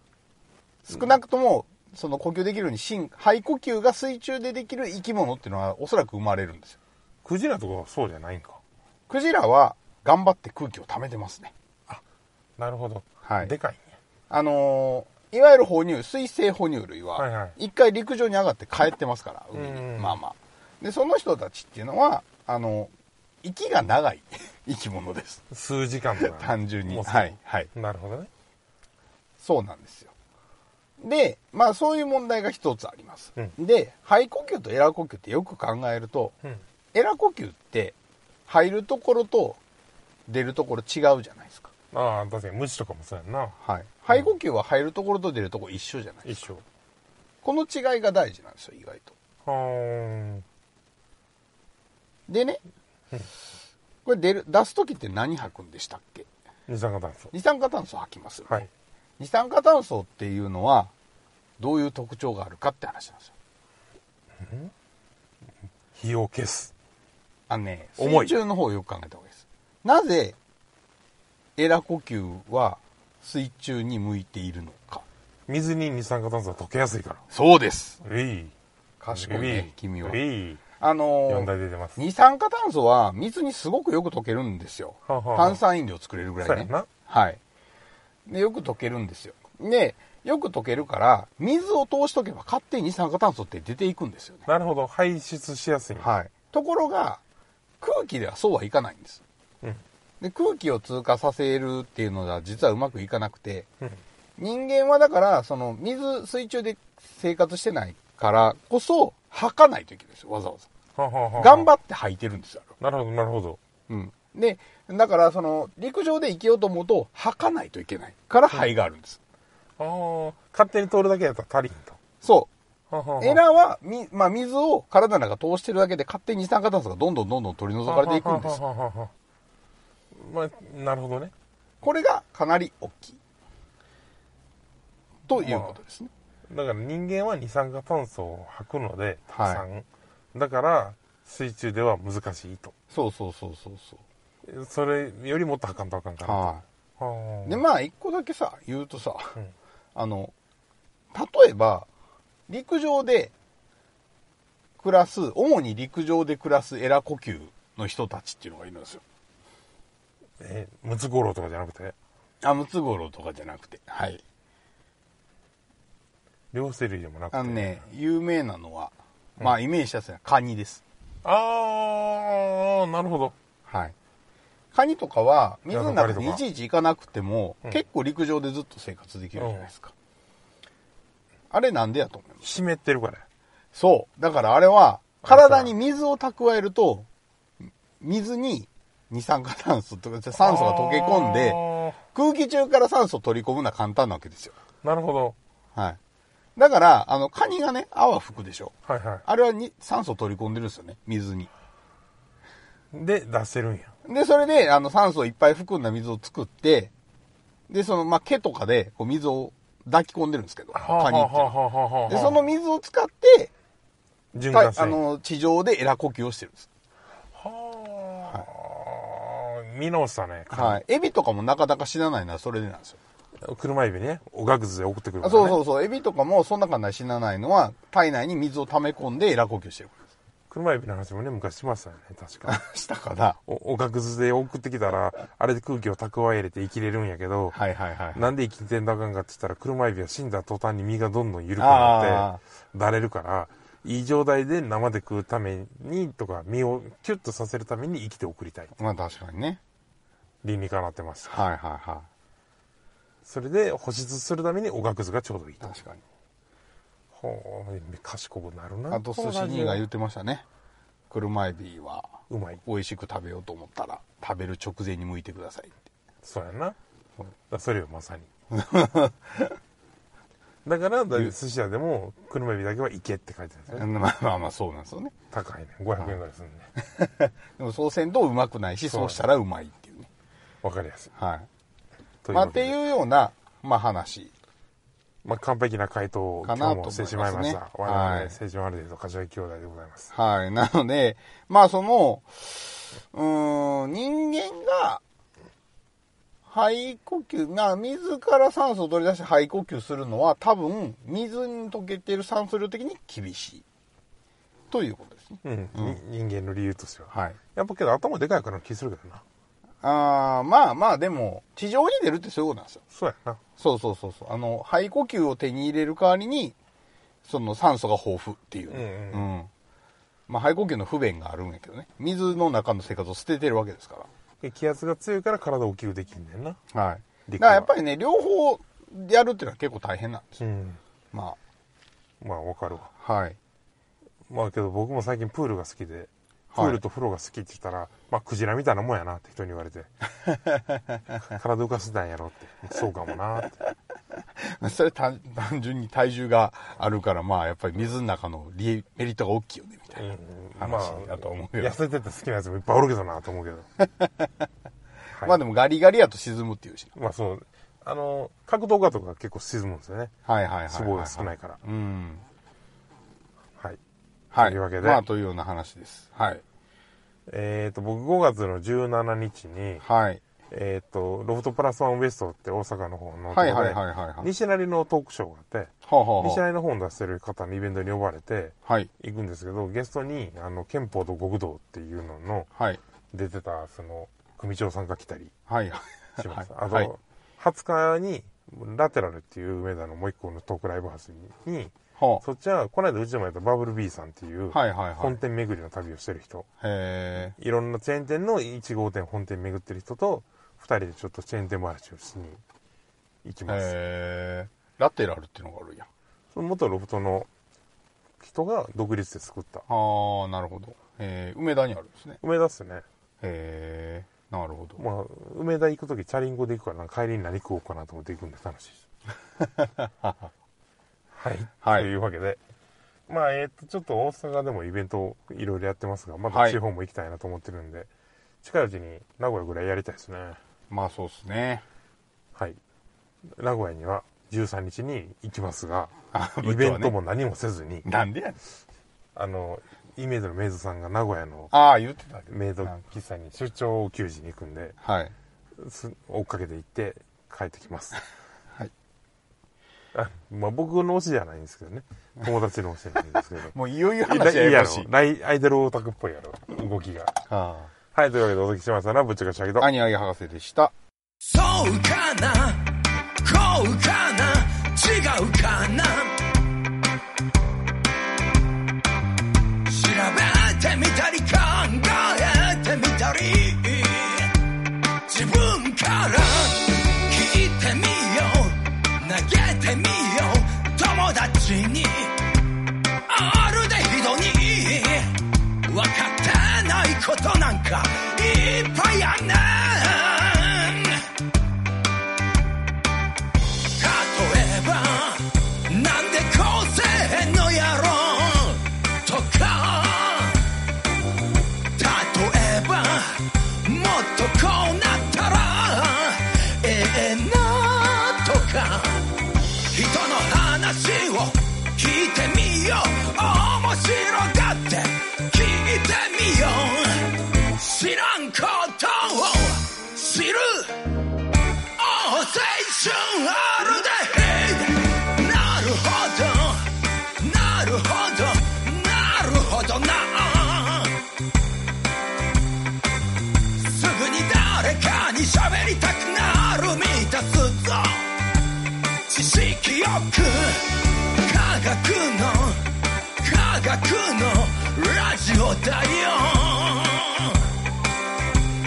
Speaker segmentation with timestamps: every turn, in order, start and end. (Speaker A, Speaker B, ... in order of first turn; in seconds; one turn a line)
Speaker A: 0.8-6.8
Speaker B: 7.2-8.6
Speaker A: 9.1-11.5
Speaker B: 12.6-13.9
Speaker A: 13.2-13.5
Speaker A: 14.3-22.9
Speaker B: 17.2-17.6
Speaker B: 19.5-20.2
Speaker A: 23.4-25.4
Speaker B: 25.5-28.3
Speaker A: 26.2-27.7
Speaker A: 29.4-30.1
Speaker A: 31.0-36.4
Speaker A: 36.9-38.0
Speaker A: 38.5-39.6
Speaker A: 40.3-41.7
Speaker B: 41.9-43.5
Speaker A: 43.6-46.5
Speaker B: 46.2-46.6
Speaker A: 47.4-49.1
Speaker B: 49.5-50.5
Speaker A: 52.3-52.6
Speaker A: 54.0-56.3
Speaker B: 56.7-57.3
Speaker A: 57.3-58.7
Speaker A: 59.2-60.9
Speaker A: 61.6-63.3
Speaker B: 64.4-64.7
Speaker B: 65.9-66.7
Speaker A: 67.5-70.4
Speaker B: 68.0-68.4
Speaker A: 71.6-75.0
Speaker B: 75.5-77.2
Speaker A: 77.3-78.0
Speaker B: 78.0-78.5
Speaker A: 79.0-80.2
Speaker B: 79.1-80.6
Speaker A: 80.8-87.4
Speaker B: 81.3-82.0
Speaker B: 85.1-85.6
Speaker B: 86.4-86.9
Speaker A: 88.3-94.5
Speaker B: 94.5-96.1
Speaker A: 96.0-97.2
Speaker A: 97.8-99.2
Speaker A: 100.2-103.7
Speaker A: 104.4-110.7
Speaker B: 111.0-111.7
Speaker A: 111.4-112.7
Speaker B: 112.8-113.6
Speaker A: 113.9-119.2
Speaker B: 119.8-122.0
Speaker A: 122.2-122.5
Speaker B: 122.9-123.4
Speaker A: 123.2-128.6
Speaker B: 127.9-129.1
Speaker B: 130.1-131.3
Speaker A: 131.8-133.2
Speaker A: 135.3-136.1
Speaker B: 135.4-135.8
Speaker B: 136.5-142.7
Speaker A: 139.3-139.7
Speaker A: 142.9-144.0
Speaker B: 144.5-147.6
Speaker A: 146.2-146.6
Speaker A: 147.4-149.4
Speaker A: 149.9-150.3
Speaker A: 151.1-151.9
Speaker A: 152.5-153.3
Speaker A: 154.8-159.0
Speaker B: 160.4-161.9
Speaker A: 162.4-164.2
Speaker B: 166.5-167.8
Speaker A: 167.3-170.8
Speaker B: 171.2-173.3
Speaker A: 173.7-173.9
Speaker A: 174.7-179.9
Speaker B: 175.7-176.4
Speaker B: 179.4-179.7
Speaker A: 181.5-182.5
Speaker B: 182.4-183.2
Speaker A: 183.7-187.1
Speaker B: 185.2-185.7
Speaker A: 187.7-194.6
Speaker B: 190.4-192.0
Speaker B: 194.8-195.4
Speaker A: 196.6-201.5
Speaker B: 198.9-199.2
Speaker B: 202.9-203.9
Speaker A: 204.1-206.9
Speaker A: 207.7-211.6
Speaker B: 210.7-212.4
Speaker A: 212.1-213.5
Speaker B: 214.3-215.0
Speaker A: 214.5-216.7
Speaker B: 217.3-220.8
Speaker A: 220.5-223.0
Speaker B: 223.4-225.6
Speaker A: 225.2-230.0
Speaker B: 230.5-232.6
Speaker A: 232.5-233.4
Speaker B: 233.5-237.6
Speaker A: 237.5-238.3
Speaker B: 238.2-248.7
Speaker A: 241.6-242.4
Speaker A: 248.8-249.6
Speaker B: 250.4-251.4
Speaker A: 251.3-252.1
Speaker B: 253.2-255.8
Speaker A: 255.6-256.0
Speaker B: 257.1-259.8
Speaker A: 258.9-260.4
Speaker A: 261.1-265.8
Speaker B: 262.3-262.6
Speaker B: 266.2-266.8
Speaker B: 267.5-268.3
Speaker A: 268.5-269.6
Speaker B: 270.6-273.9
Speaker A: 273.7-275.1
Speaker B: 275.3-276.7
Speaker A: 276.8-280.1
Speaker B: 278.9-279.2
Speaker B: 280.6-281.1
Speaker A: 281.2-281.5
Speaker B: 282.2-282.8
Speaker A: 282.3-284.3
Speaker B: 285.2-290.1
Speaker A: 286.4-288.4
Speaker A: 290.1-295.0
Speaker A: 296.5-303.6
Speaker A: 304.7-306.0
Speaker B: 305.4-309.2
Speaker A: 307.1-307.4
Speaker A: 309.8-312.8
Speaker B: 312.9-313.4
Speaker A: 313.6-316.6
Speaker A: 317.2-319.5
Speaker B: 318.7-319.3
Speaker A: 320.3-324.1
Speaker B: 324.4-326.6
Speaker A: 326.7-330.4
Speaker B: 327.3-327.7
Speaker B: 330.4-330.8
Speaker A: 331.1-331.4
Speaker B: 332.2-332.9
Speaker A: 333.0-333.4
Speaker B: 334.3-339.9
Speaker A: 336.5-336.8
Speaker A: 340.3-341.0
Speaker B: 341.2-343.6
Speaker A: 344.4-350.1
Speaker B: 349.9-353.7
Speaker A: 350.6-351.8
Speaker A: 353.8-354.4
Speaker B: 355.1-355.4
Speaker A: 355.2-356.9
Speaker B: 356.9-360.1
Speaker A: 360.2-362.2
Speaker B: 360.7-361.6
Speaker A: 364.3-366.4
Speaker B: 364.4-365.0
Speaker B: 367.3-369.8
Speaker A: 369.8-370.2
Speaker B: 370.5-382.5
Speaker A: 373.3-374.3
Speaker A: 375.9-376.4
Speaker A: 382.6-382.8
Speaker B: 383.1-385.3
Speaker A: 385.5-386.9
Speaker B: 386.2-396.5
Speaker A: 392.0-392.2
Speaker A: 394.5-395.2
Speaker A: 396.6-397.4
Speaker B: 397.3-402.4
Speaker B: 403.2-403.7
Speaker A: 403.5-405.9
Speaker B: 406.3-407.3
Speaker B: 408.2-409.7
Speaker A: 409.7-412.2
Speaker B: 412.2-412.9
Speaker A: 413.2-414.8
Speaker B: 414.8-418.9
Speaker A: 419.4-420.2
Speaker B: 421.1-422.4
Speaker A: 421.6-421.9
Speaker B: 423.1-427.9
Speaker A: 426.3-426.6
Speaker B: 428.4-430.4
Speaker A: 430.7-431.6
Speaker B: 432.4-432.6
Speaker B: 433.3-437.9
Speaker A: 436.1-436.9
Speaker A: 437.9-438.4
Speaker B: 439.1-441.5
Speaker A: 441.5-442.8
Speaker B: 442.3-444.8
Speaker A: 444.8-445.1
Speaker B: 445.6-448.0
Speaker B: 449.9-453.5
Speaker A: 453.4-454.9
Speaker B: 454.1-457.1
Speaker A: 457.3-457.7
Speaker B: 457.9-459.7
Speaker A: 459.6-460.7
Speaker C: 461.2-462.6
Speaker C: 463.2-466.2
Speaker C: 469.7-474.3
Speaker C: 475.1-482.2
Speaker C: 483.1-485.1
Speaker C: 485.7-491.0
Speaker C: 493.8-500.4
Speaker C: 501.8-509.1
Speaker C: 509.7-520.8
Speaker C: 521.8-531.0
Speaker C: 533.6-538.1
Speaker C: 539.1-542.6
Speaker C: 543.2-547.4